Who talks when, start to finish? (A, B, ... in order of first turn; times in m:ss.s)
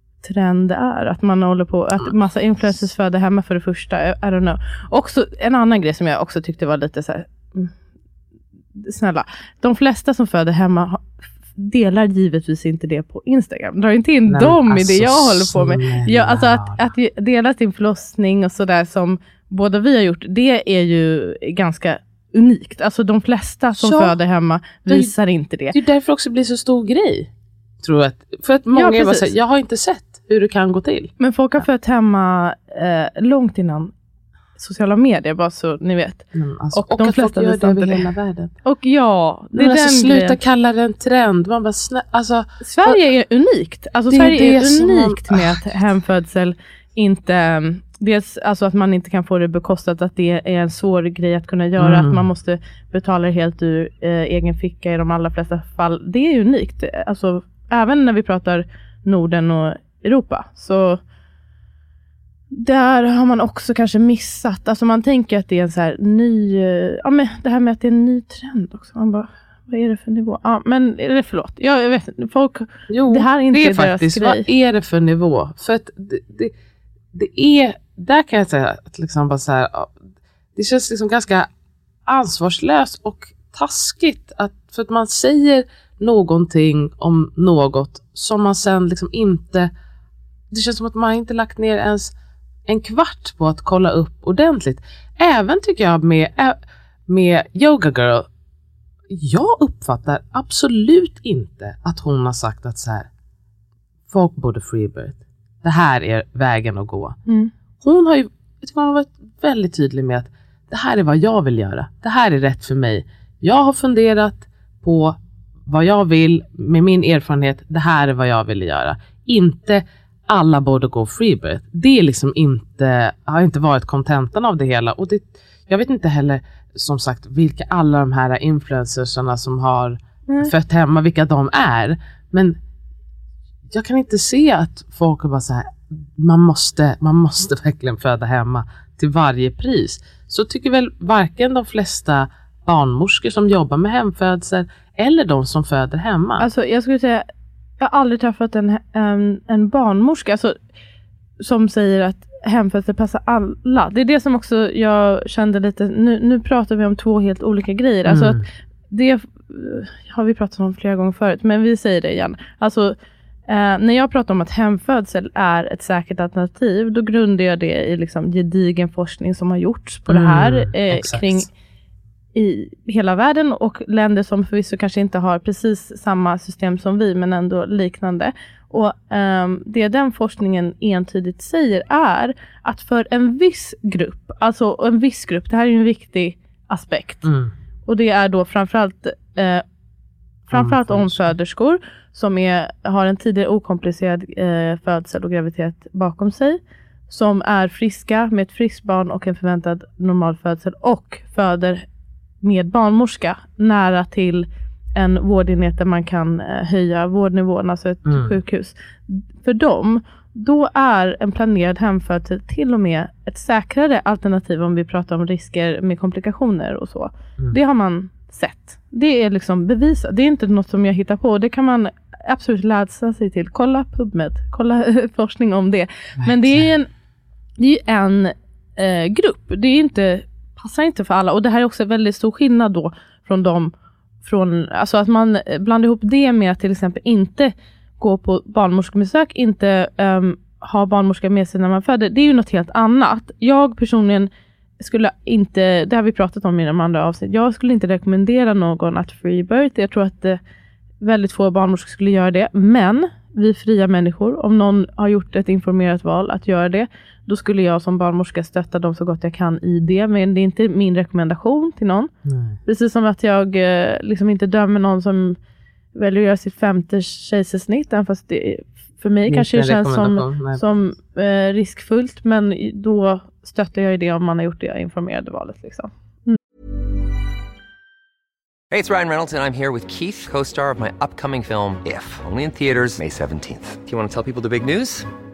0:00.2-0:07.7 A
0:08.8-0:25.8 A
0:14.3-0:16.9 B
0:23.8-0:24.2 B
0:24.9-0:25.1 B
0:25.7-0:27.3 B
0:27.8-0:31.1 B
0:28.7-0:29.3 A
0:31.2-0:33.9 A
0:34.6-0:38.1 A
0:36.3-0:38.5 B
0:38.6-0:40.4 A
0:39.5-0:43.0 B
0:42.6-1:01.0 A
0:44.1-0:45.8 B
0:51.8-0:52.3 B
1:02.5-1:14.5 A
1:12.9-1:16.5 B
1:17.1-1:20.0 B
1:20.6-1:21.5 B
1:22.1-1:29.7 B
1:30.5-1:32.1 B
1:32.7-1:38.3 B
1:39.1-1:43.1 B
1:44.1-1:47.2 B
1:47.8-2:12.6 B
2:10.3-2:10.5 A
2:13.7-2:26.5 B
2:26.4-2:27.2 A
2:27.8-2:30.6 A
2:31.4-2:43.0 A
2:38.1-2:38.4 B
2:43.5-2:51.5 A
2:50.1-2:51.5 B
2:52.3-3:07.2 A
3:07.2-3:07.5 B
3:07.9-3:09.6 A
3:10.5-3:21.9 A
3:10.5-3:11.3 B
3:22.4-3:46.9 A
3:28.1-3:28.4 B
3:46.2-3:46.7 B
3:47.6-3:53.7 A
3:54.2-4:04.3 A
4:04.8-4:10.4 A
4:11.0-4:22.1 A
4:22.2-4:22.6 B
4:22.6-4:25.4 A
4:26.0-4:36.4 A
4:29.3-4:30.7 B
4:38.7-4:45.1 C